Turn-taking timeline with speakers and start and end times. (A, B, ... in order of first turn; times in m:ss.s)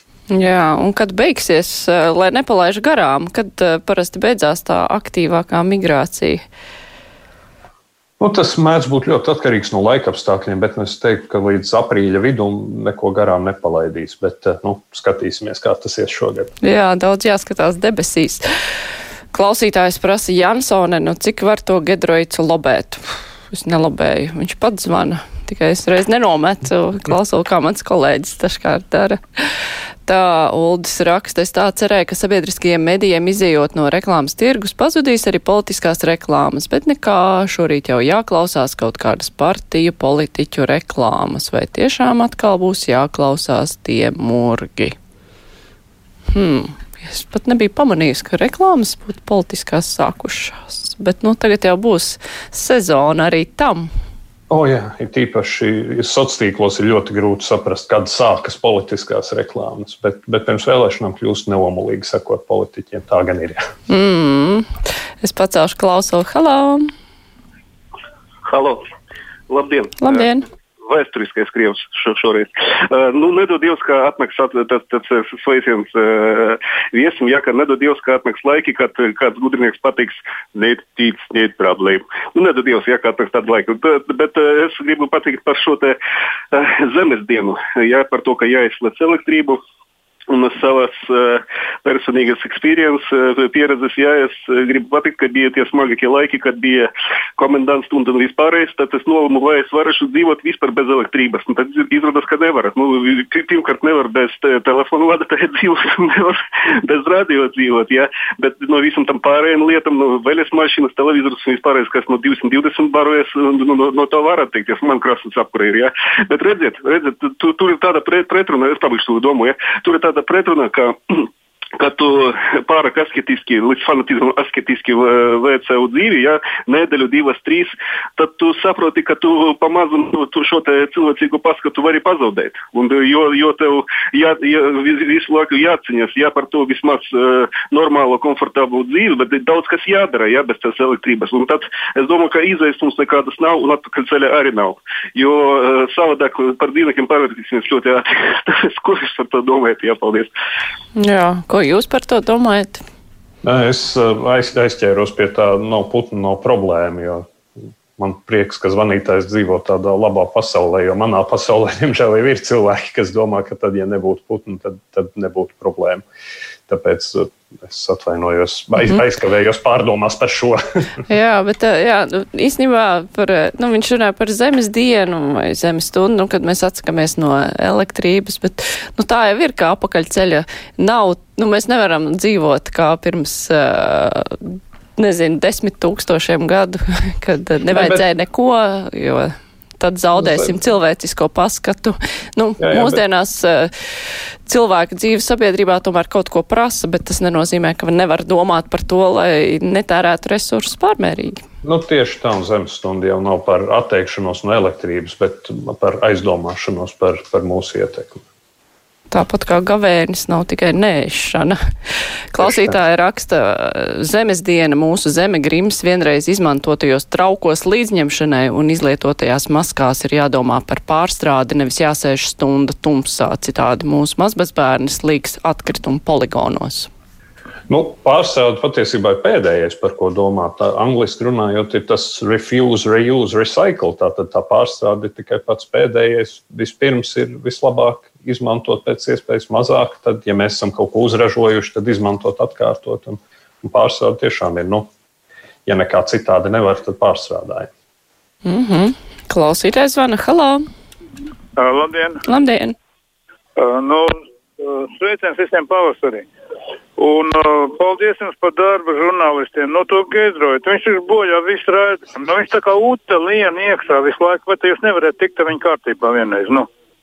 0:00.3-0:06.4 A
0:08.2-0:16.5 B
0:16.6-0:18.5 A
0:19.3-0:29.4 A
0:30.1-0:45.0 A
0:46.3-0:53.9 A
0:54.5-1:03.6 B
1:03.9-1:04.7 A
1:05.2-1:06.9 A
1:08.5-1:08.8 C
1:09.5-1:10.2 C
1:10.0-1:10.4 A
1:10.8-1:26.0 C
1:26.5-1:29.6 C
1:30.3-2:30.3 C
2:31.0-2:32.8 A
2:33.4-2:37.3 B
2:38.0-2:46.0 B
2:46.7-2:51.0 B
2:51.1-3:13.7 A
3:07.7-3:08.0 B
3:10.2-3:10.6 B
3:12.6-3:13.0 B
3:14.5-3:21.4 A
3:21.6-3:28.3 B
3:29.1-3:31.6 A
3:32.3-3:46.9 A
3:32.4-3:32.8 B
3:47.7-4:04.9 B
4:05.7-4:07.7 B
4:08.4-4:10.6 A
4:11.6-4:12.2 D
4:12.3-4:12.8 A
4:13.6-4:16.3 D
4:17.0-4:26.7 D